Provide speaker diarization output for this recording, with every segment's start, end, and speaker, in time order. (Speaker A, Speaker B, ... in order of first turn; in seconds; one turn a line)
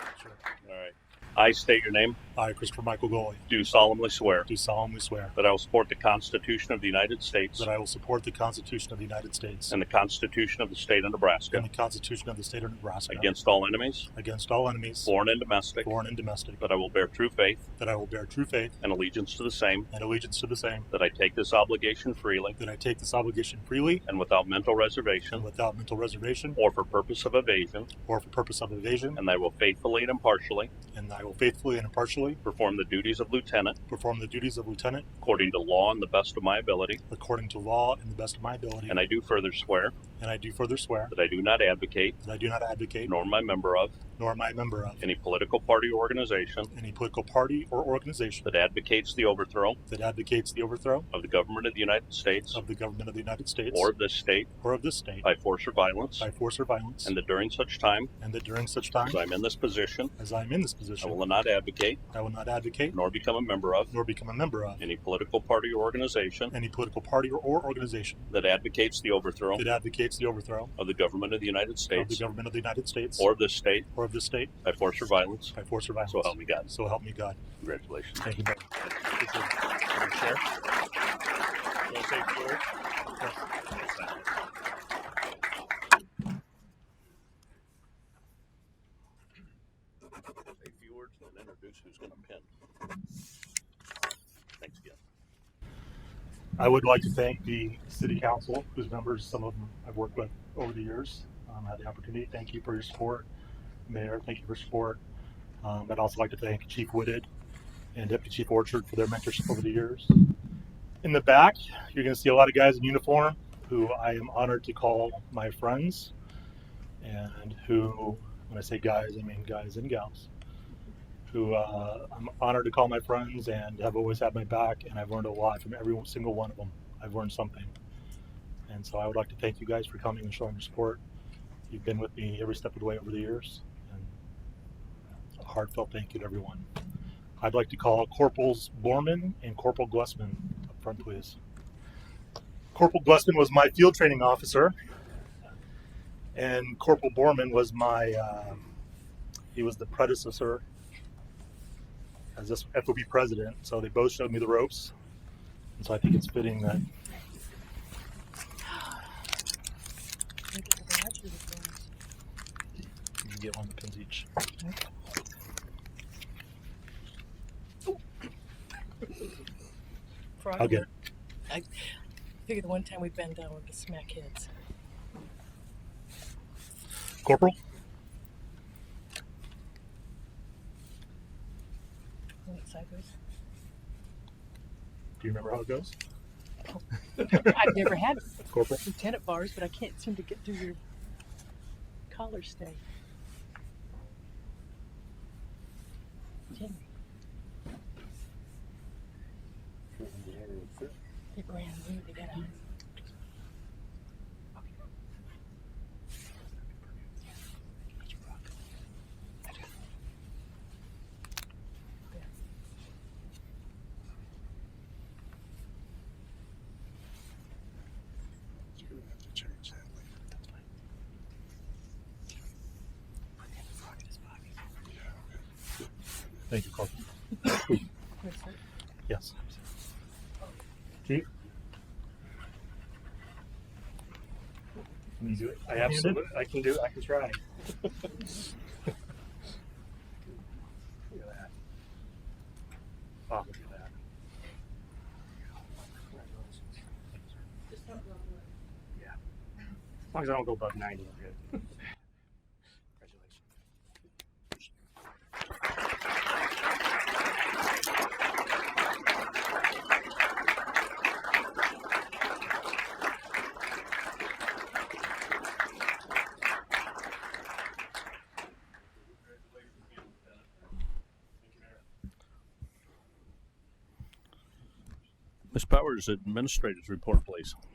Speaker A: 0.1-0.4
Speaker B: 0.6-2.2
Speaker A: 2.4-3.5
Speaker B: 3.5-4.5
Speaker A: 4.5-5.3
Speaker B: 5.3-7.7
Speaker A: 7.6-9.8
Speaker B: 9.7-11.7
Speaker A: 11.5-13.3
Speaker B: 13.1-14.1
Speaker A: 14.1-15.1
Speaker B: 15.1-15.9
Speaker A: 15.8-16.6
Speaker B: 16.6-17.6
Speaker A: 17.8-18.8
Speaker B: 18.8-19.9
Speaker A: 19.9-20.9
Speaker B: 20.9-22.6
Speaker A: 22.6-24.0
Speaker B: 24.1-25.5
Speaker A: 25.3-26.6
Speaker B: 26.6-27.9
Speaker A: 28.1-29.2
Speaker B: 29.1-30.7
Speaker A: 30.9-32.4
Speaker B: 32.4-33.8
Speaker A: 33.9-35.1
Speaker B: 35.2-37.0
Speaker A: 37.1-39.0
Speaker B: 38.9-40.0
Speaker A: 40.2-41.1
Speaker B: 41.1-42.2
Speaker A: 42.2-43.1
Speaker B: 43.1-44.0
Speaker A: 44.2-45.1
Speaker B: 45.0-46.7
Speaker A: 46.7-48.5
Speaker B: 48.4-49.8
Speaker A: 49.9-51.1
Speaker B: 51.1-52.6
Speaker A: 52.5-53.9
Speaker B: 53.7-54.5
Speaker A: 54.6-55.3
Speaker B: 55.2-56.3
Speaker A: 56.2-57.1
Speaker B: 57.0-58.1
Speaker A: 58.2-59.2
Speaker B: 59.0-60.1
Speaker A: 60.2-61.2
Speaker B: 61.0-62.0
Speaker A: 62.1-63.0
Speaker B: 62.9-63.9
Speaker A: 63.9-64.8
Speaker B: 64.8-66.5
Speaker A: 66.5-68.3
Speaker B: 68.3-69.7
Speaker A: 69.6-70.7
Speaker B: 70.8-72.2
Speaker A: 71.9-73.3
Speaker B: 73.2-73.9
Speaker A: 73.9-74.5
Speaker B: 74.6-75.5
Speaker A: 75.5-77.4
Speaker B: 76.1-76.7
Speaker B: 77.6-78.3
Speaker A: 78.2-80.4
Speaker B: 78.8-79.2
Speaker B: 81.9-82.6
Speaker A: 83.2-83.5
Speaker B: 83.7-84.2
Speaker B: 90.6-92.5
Speaker B: 94.6-95.0
Speaker A: 96.6-103.3
Speaker A: 103.9-105.0
Speaker A: 105.6-107.3
Speaker A: 108.0-110.2
Speaker A: 111.0-116.1
Speaker A: 117.0-120.3
Speaker A: 121.3-127.7
Speaker A: 128.7-131.0
Speaker A: 131.7-134.2
Speaker A: 135.4-136.7
Speaker A: 137.4-141.4
Speaker A: 142.7-144.8
Speaker A: 146.3-148.7
Speaker A: 149.5-150.6
Speaker A: 152.4-154.9
Speaker A: 155.8-156.8
Speaker C: 160.5-161.8
Speaker A: 163.2-164.3
Speaker C: 170.4-170.9
Speaker A: 170.6-170.9
Speaker C: 172.4-174.5
Speaker A: 177.2-177.6
Speaker C: 182.4-183.1
Speaker A: 185.2-185.9
Speaker C: 186.7-188.3
Speaker A: 188.5-188.8
Speaker C: 188.8-190.8
Speaker C: 192.1-192.8
Speaker C: 196.5-196.8
Speaker C: 201.3-202.6
Speaker A: 226.5-227.8
Speaker C: 228.2-228.6
Speaker A: 229.1-229.3
Speaker A: 235.2-236.3
Speaker D: 235.4-237.4
Speaker D: 241.1-241.5
Speaker D: 243.3-243.9
Speaker D: 246.0-246.7
Speaker D: 250.1-251.6
Speaker D: 253.0-253.4
Speaker B: 275.5-277.6